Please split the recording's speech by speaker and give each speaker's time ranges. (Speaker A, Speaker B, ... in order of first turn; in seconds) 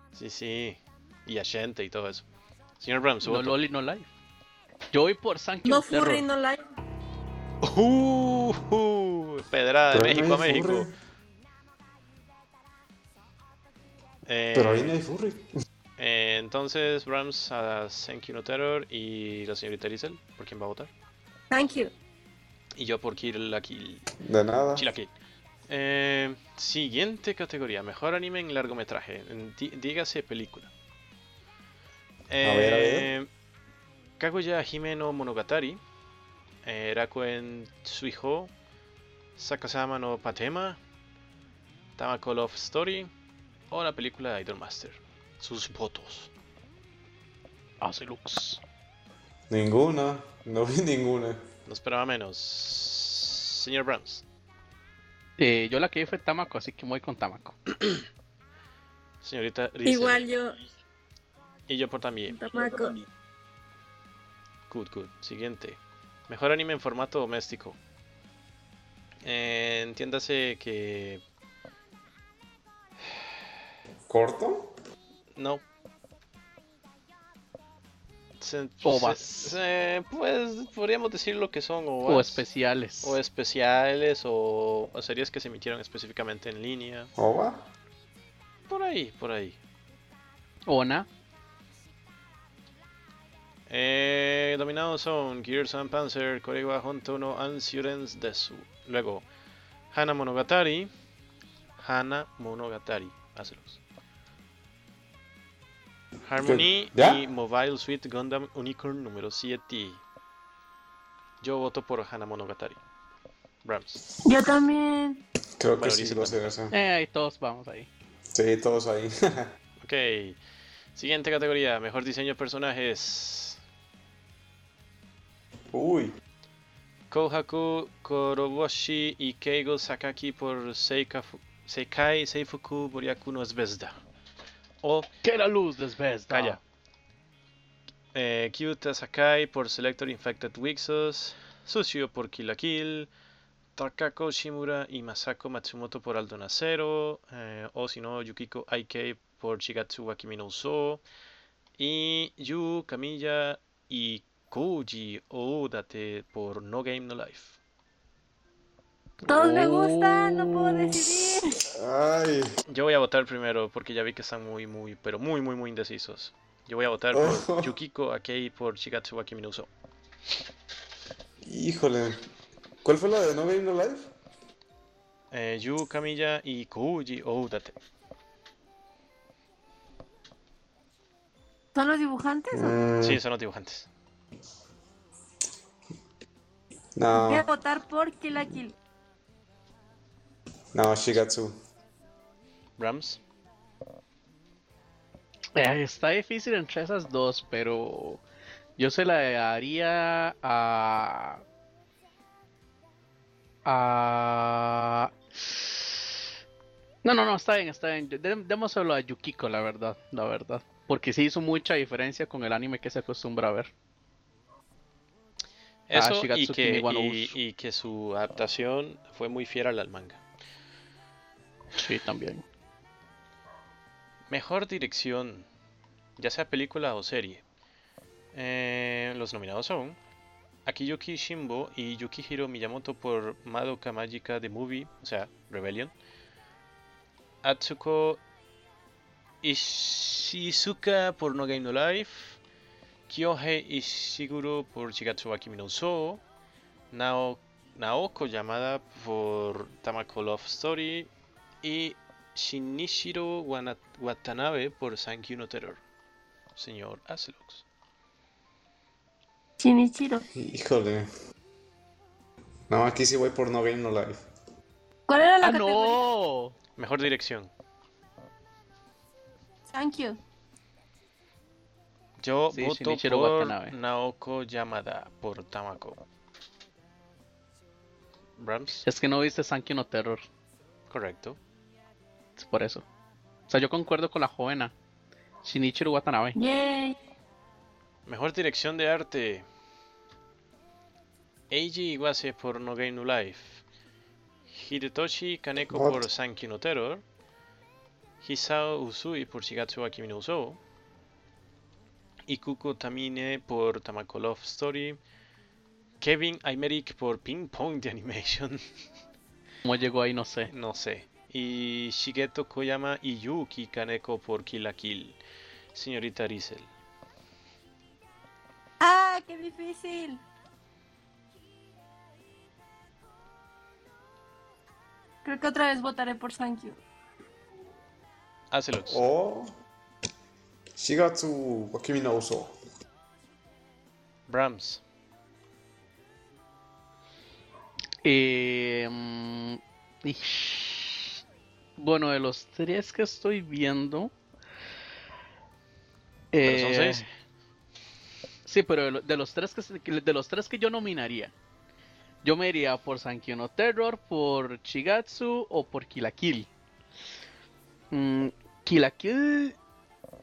Speaker A: 0.2-2.3, 2.8-3.5, 7.6-10.9, 14.3-15.0, 16.0-20.9, 22.8-24.1, 24.7-25.1, 25.7-30.7, 32.3-33.3, 34.2-35.8, 36.6-38.5, 39.4-40.8, 42.0-43.1, 43.7-46.3, 51.7-54.2, 59.2-60.2, 61.7-62.4, 64.7-67.8, 69.2-71.2, 75.4-75.6, 78.4-82.4, 83.0-87.1, 88.7-89.6, 93.7-99.3, 99.9-100.9, 101.8-103.8, 106.2-110.0, 111.4-112.8, 113.6-114.0, 115.8-116.5, 119.8-120.4, 121.0-123.6, 127.1-134.0, 134.8-135.1, 136.3-136.6, 138.1-143.1, 143.8-151.0, 151.8-157.6, 162.7-169.7, 175.3-177.8, 183.0-183.9, 192.8-193.2, 215.9-220.2, 224.3-225.5, 226.2-227.4, 228.3-230.0, 230.7-235.9, 237.4-238.2, 239.4-242.4, 243.1-246.2, 246.9-251.1, 251.6-255.8, 256.6-257.6, 266.8-267.5, 272.2-276.0, 278.4-278.9, 280.9-281.4, 288.1-289.4, 291.5-293.6, 294.5-297.0, 298.2-300.6, 302.3-305.0, 306.0-308.6, 310.5-315.2, 315.8-316.7, 328.5-329.0, 334.3-334.8, 346.4-347.0
Speaker B: 3.2-4.1, 4.9-6.2, 47.8-48.6, 55.4-57.6, 78.8-79.6, 82.1-83.2, 90.7-91.1, 116.7-117.9, 135.2-136.6, 159.2-161.0, 195.6-198.2, 198.8-201.4, 203.7-205.9, 207.0-213.7, 215.9-217.3, 221.8-222.4, 265.4-266.6, 272.5-273.8, 278.8-280.2, 282.4-282.9, 283.5-284.7, 285.4-286.4, 309.6-310.5, 338.0-341.2, 341.8-344.1, 346.3-347.1, 348.5-351.3, 352.2-356.5, 357.9-359.6
Speaker C: 5.7-6.6, 21.5-21.9, 59.9-60.5, 62.3-63.0, 114.2-115.2, 159.3-161.6, 181.8-182.8, 187.2-188.8, 259.6-260.2, 265.1-266.0, 269.7-270.2, 286.4-287.0, 318.8-320.2, 325.2-326.8
Speaker D: 9.9-10.9, 14.6-15.5, 24.2-24.9, 32.4-33.1, 49.5-51.4, 74.1-74.7, 87.2-87.7, 106.4-107.2, 115.6-116.7, 118.3-119.5, 125.7-126.1, 161.7-162.5, 167.1-167.7, 171.4-172.2, 172.8-174.1, 182.5-183.2, 187.0-187.5, 190.7-191.6, 260.3-261.1, 262.7-264.2, 295.7-296.1, 328.9-329.5, 330.8-332.6